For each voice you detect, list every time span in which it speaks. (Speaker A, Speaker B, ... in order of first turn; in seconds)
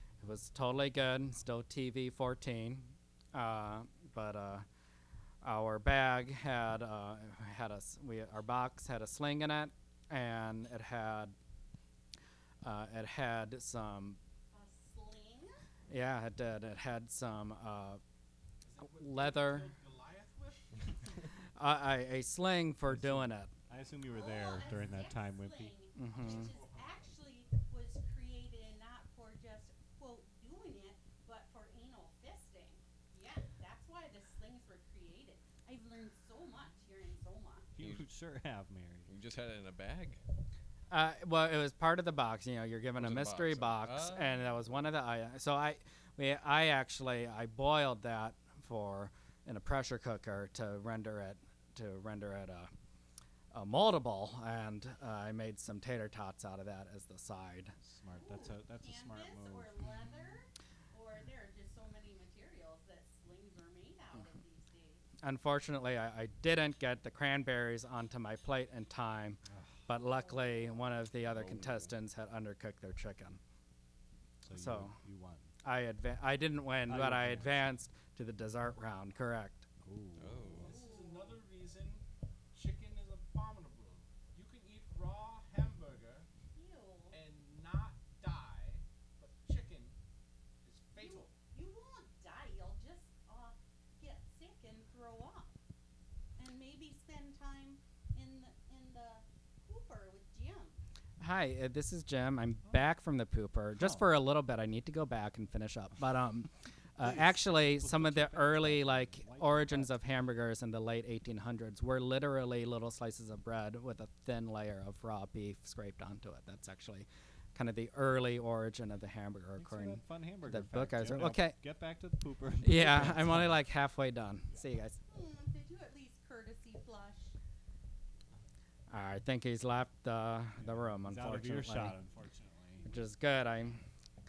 Speaker A: 0.2-4.7, 5.4-11.3, 12.6-14.2, 15.9-18.0, 19.0-19.7, 21.6-23.5, 26.0-26.5, 40.9-52.7, 53.5-57.8, 65.2-73.4, 74.5-75.0, 75.6-79.7, 101.2-121.6, 122.6-125.0, 128.9-132.0, 132.9-133.8
Speaker B: 14.5-15.6, 24.1-37.7, 58.1-65.0, 70.4-70.8, 80.6-81.4, 86.5-87.2, 91.0-95.6, 96.4-100.8, 125.1-127.3
Speaker C: 18.6-20.9, 26.1-27.1, 80.6-86.3, 87.1-90.0, 90.6-91.4
Speaker D: 22.9-25.8, 37.8-39.1, 57.8-59.8, 69.5-69.9, 74.5-75.5, 76.9-77.7, 79.8-80.6, 103.8-104.1, 107.0-110.0, 119.6-123.6, 130.6-132.9
Speaker E: 37.8-38.1, 39.1-40.2, 43.0-44.5, 71.3-71.9, 80.2-80.7